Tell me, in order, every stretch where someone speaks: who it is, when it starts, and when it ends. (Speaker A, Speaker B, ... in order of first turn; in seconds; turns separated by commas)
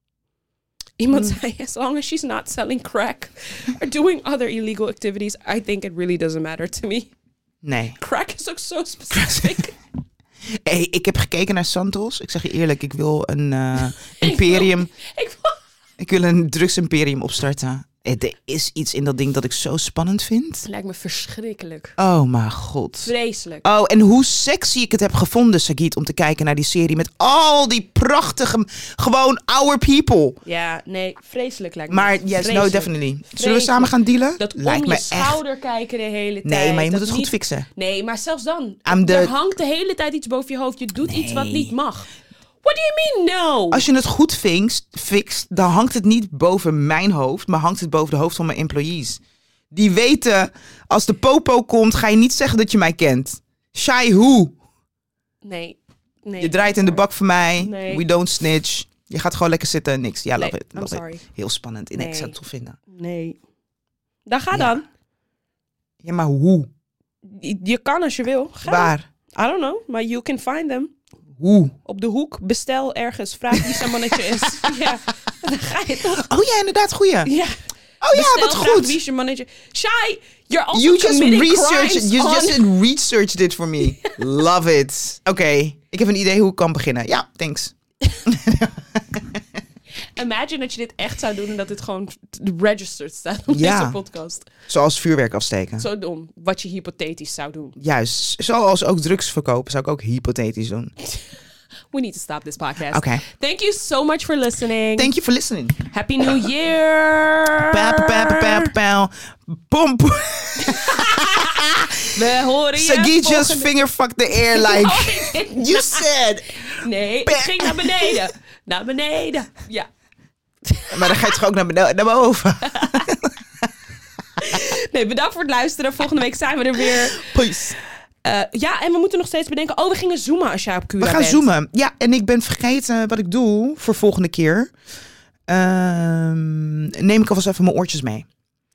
Speaker A: 1.0-7.1, Speaker B: 7.6-8.0, Speaker A: 8.0-9.7, Speaker B: 9.1-9.7, Speaker B: 10.5-14.9, Speaker A: 14.2-15.6, Speaker B: 16.0-20.7, Speaker A: 20.6-22.0, Speaker B: 22.0-30.4, Speaker A: 23.1-23.6, Speaker A: 30.4-42.1, Speaker B: 31.9-35.4, Speaker B: 36.5-37.7, Speaker B: 38.9-39.3, Speaker B: 41.0-41.7, Speaker A: 42.6-43.9, Speaker B: 43.7-49.2, Speaker B: 49.7-54.6, Speaker A: 55.4-57.0, Speaker B: 56.4-62.8, Speaker A: 57.6-58.0, Speaker A: 60.4-61.2, Speaker A: 62.0-62.4, Speaker A: 62.9-63.4, Speaker A: 64.3-64.8, Speaker B: 64.5-64.8, Speaker B: 66.0-66.7, Speaker A: 67.2-70.9, Speaker B: 68.7-69.1, Speaker B: 71.4-71.8, Speaker A: 71.8-76.3, Speaker B: 73.7-74.6, Speaker B: 76.2-77.3, Speaker A: 77.2-77.6, Speaker B: 78.0-79.0, Speaker A: 78.1-82.7, Speaker B: 80.7-89.2, Speaker A: 83.9-84.1, Speaker A: 90.2-94.5, Speaker B: 93.5-94.0, Speaker B: 94.7-95.9, Speaker A: 95.8-97.8, Speaker B: 97.8-100.9, Speaker A: 101.9-105.1, Speaker B: 102.9-103.2, Speaker B: 105.0-105.8, Speaker A: 105.8-108.7, Speaker B: 107.7-112.2, Speaker A: 110.6-113.7, Speaker B: 112.7-118.3, Speaker A: 114.3-119.9, Speaker A: 120.6-121.4, Speaker B: 120.9-123.3, Speaker A: 122.7-123.1, Speaker A: 124.4-127.7, Speaker B: 127.2-127.8, Speaker A: 128.2-131.5, Speaker B: 131.0-134.7, Speaker B: 135.5-138.3